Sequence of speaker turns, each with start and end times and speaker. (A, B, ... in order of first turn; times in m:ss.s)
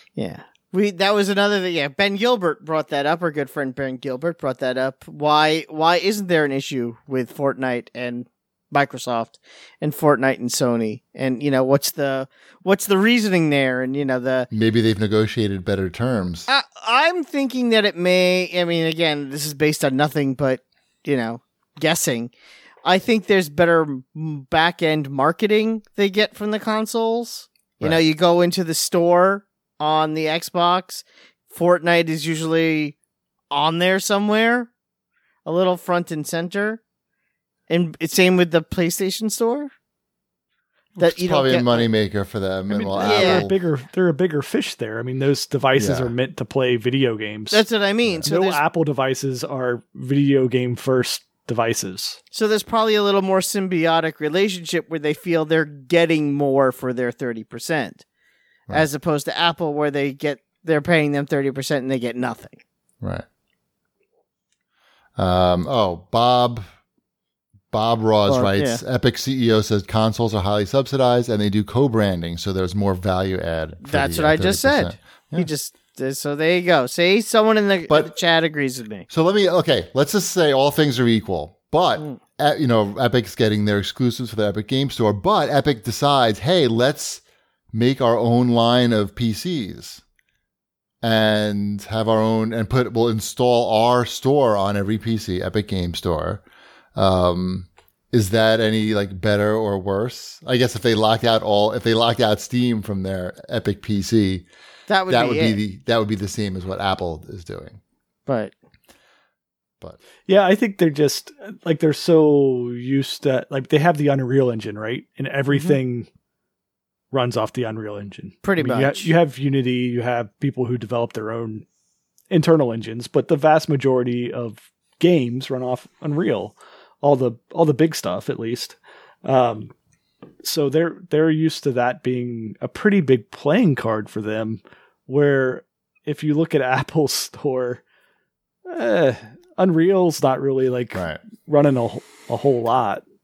0:00.2-0:14.5 A
0:14.5-0:16.5 B
0:16.5-0:22.3 A
0:22.8-0:33.0 A
0:33.5-0:34.7 A
0:35.4-0:36.8 A
0:37.7-0:39.7 A
0:41.0-0:43.6 B
0:41.0-0:41.9 A
0:42.7-0:47.7 C
0:43.0-0:43.5 A
0:45.8-0:46.1 B
0:47.5-0:48.6 A
0:48.3-0:52.2 C
0:52.3-0:58.0 A
0:58.7-1:02.6 A
1:05.2-1:06.7 B
1:07.7-1:15.5 B
1:08.3-1:08.8 A
1:13.8-1:19.1 A
1:19.1-1:27.2 B
1:27.7-1:30.0 B
1:31.0-1:36.4 B
1:37.0-1:44.5 B
1:44.9-1:45.6 A
1:45.1-1:47.8 B
1:48.3-1:48.5 A
1:50.3-1:56.1 C
1:55.5-1:55.8 A
1:57.1-2:01.6 C
1:58.4-1:59.1 A
2:02.3-2:09.7 C
2:10.4-2:17.8 C
2:18.7-2:23.0 C
2:20.9-2:21.2 B